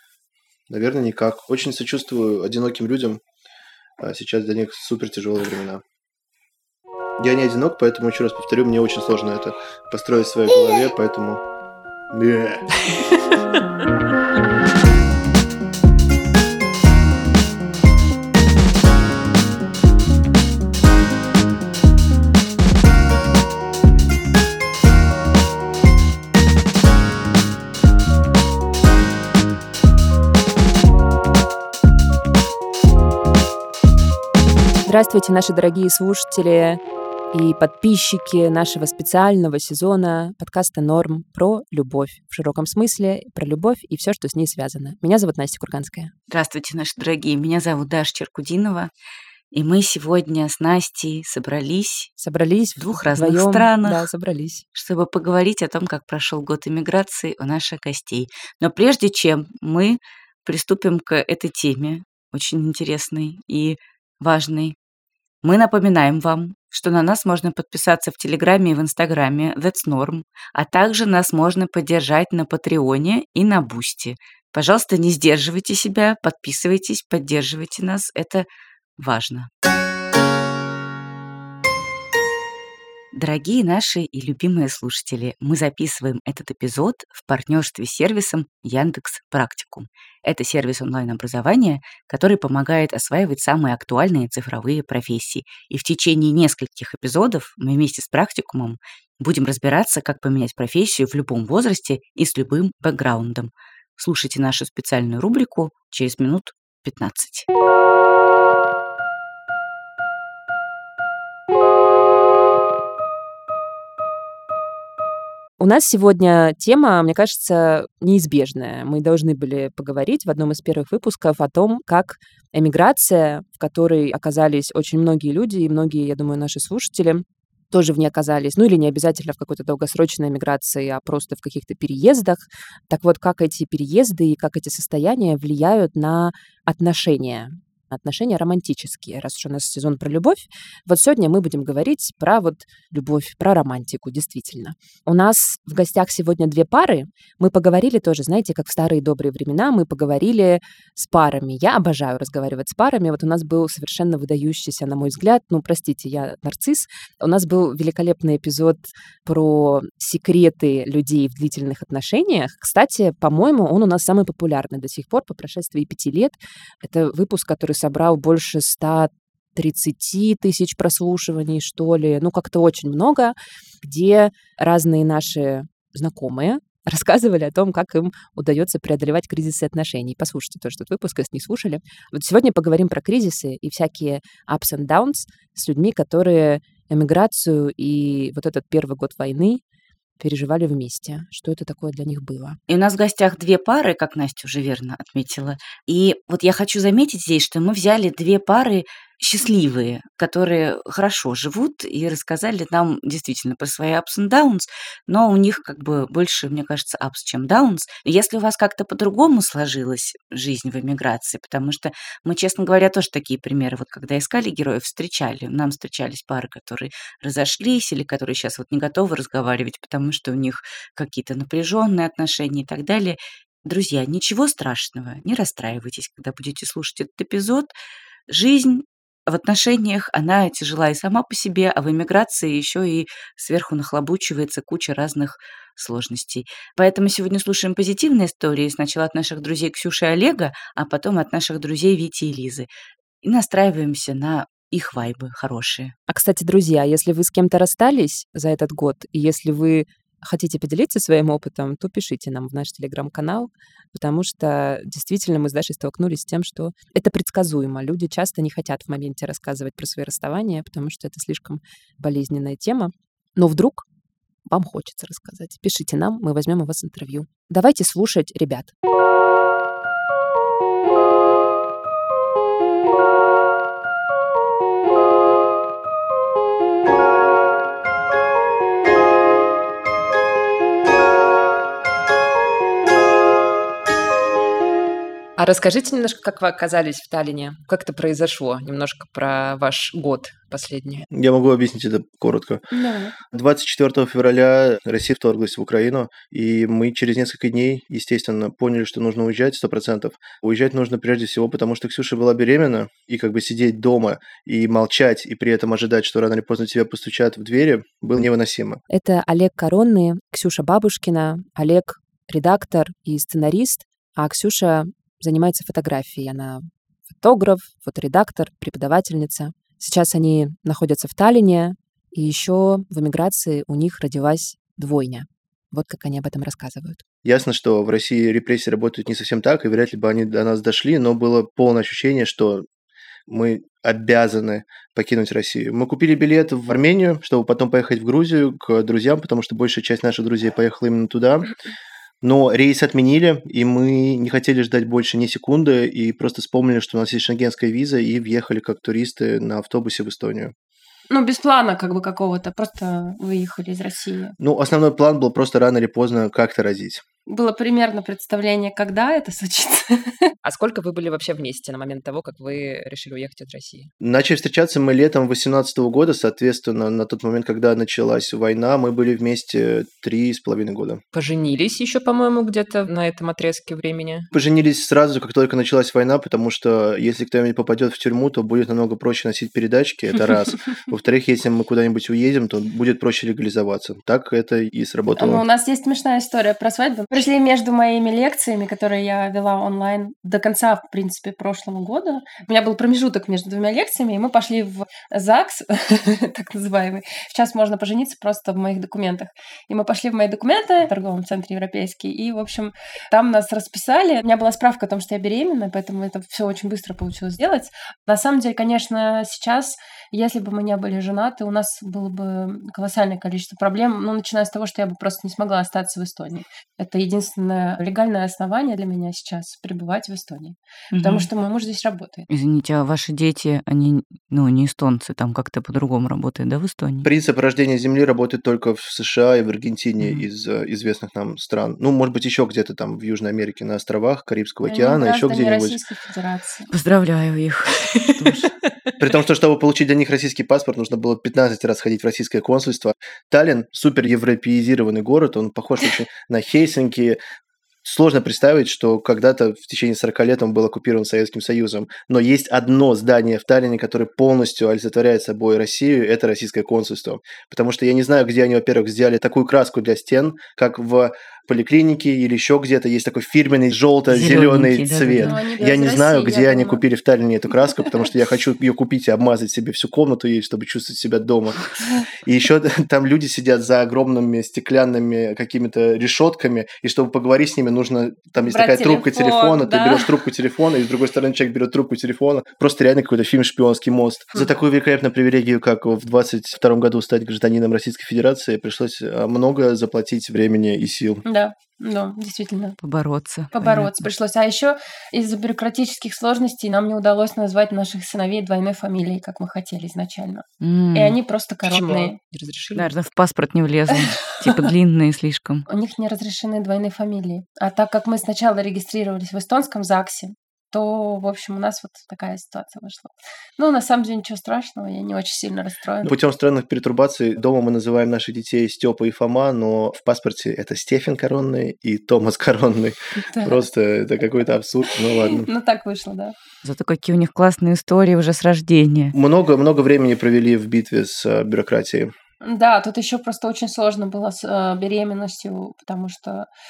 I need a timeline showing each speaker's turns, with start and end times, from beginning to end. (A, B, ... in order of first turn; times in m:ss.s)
0:00.7-0:03.2 A
0:04.0-0:05.8 A
0:07.2-0:11.4 A
0:12.1-0:12.7 A
0:12.9-0:13.4 B
0:34.8-0:36.8 B
0:37.3-0:46.1 B
0:46.3-0:48.9 C
0:49.5-0:52.1 C
0:52.2-0:54.6 B
0:52.8-0:54.1 C
0:54.7-1:04.8 C
1:05.4-1:19.5 C
1:23.1-1:47.5 C
1:55.6-3:09.6 B
3:10.2-3:12.6 B
3:12.7-3:47.7 C
3:48.3-4:02.7 C
4:03.2-4:05.9 C
4:06.1-4:23.9 B
4:24.5-4:28.7 B
4:45.4-4:51.1 B
4:51.1-4:52.6 A
4:52.7-4:53.2 D
4:53.3-5:08.8 A
5:08.9-5:27.0 B
5:27.2-5:32.7 A
5:33.3-5:41.5 A
5:42.2-5:50.5 A
5:51.1-5:54.4 D
5:54.4-5:57.0 A
5:57.3-6:00.3 D
6:00.4-6:03.9 B
6:04.0-6:11.0 A
6:11.1-6:14.3 B
6:14.3-6:25.4 A
6:25.2-7:02.3 D
7:00.9-7:01.3 C
7:02.3-7:07.1 C
7:07.0-7:15.8 A
7:10.0-7:10.3 C
7:14.7-7:16.7 D
7:16.7-7:18.5 C
7:19.0-7:27.2 A
7:27.8-7:51.6 A
7:44.1-7:45.4 C
7:45.2-7:46.8 D
7:52.2-8:11.2 A
7:58.4-8:00.2 D
8:11.3-8:12.8 D
8:12.8-8:14.1 C
8:13.5-8:22.2 D
8:20.6-8:21.2 C
8:21.6-8:22.9 B
8:22.7-8:25.7 C
8:25.7-8:36.1 D
8:36.0-8:45.5 A
8:43.3-8:43.6 D
8:45.2-8:46.4 D
8:46.6-8:49.2 C
8:49.1-8:52.1 A
8:52.4-8:56.5 D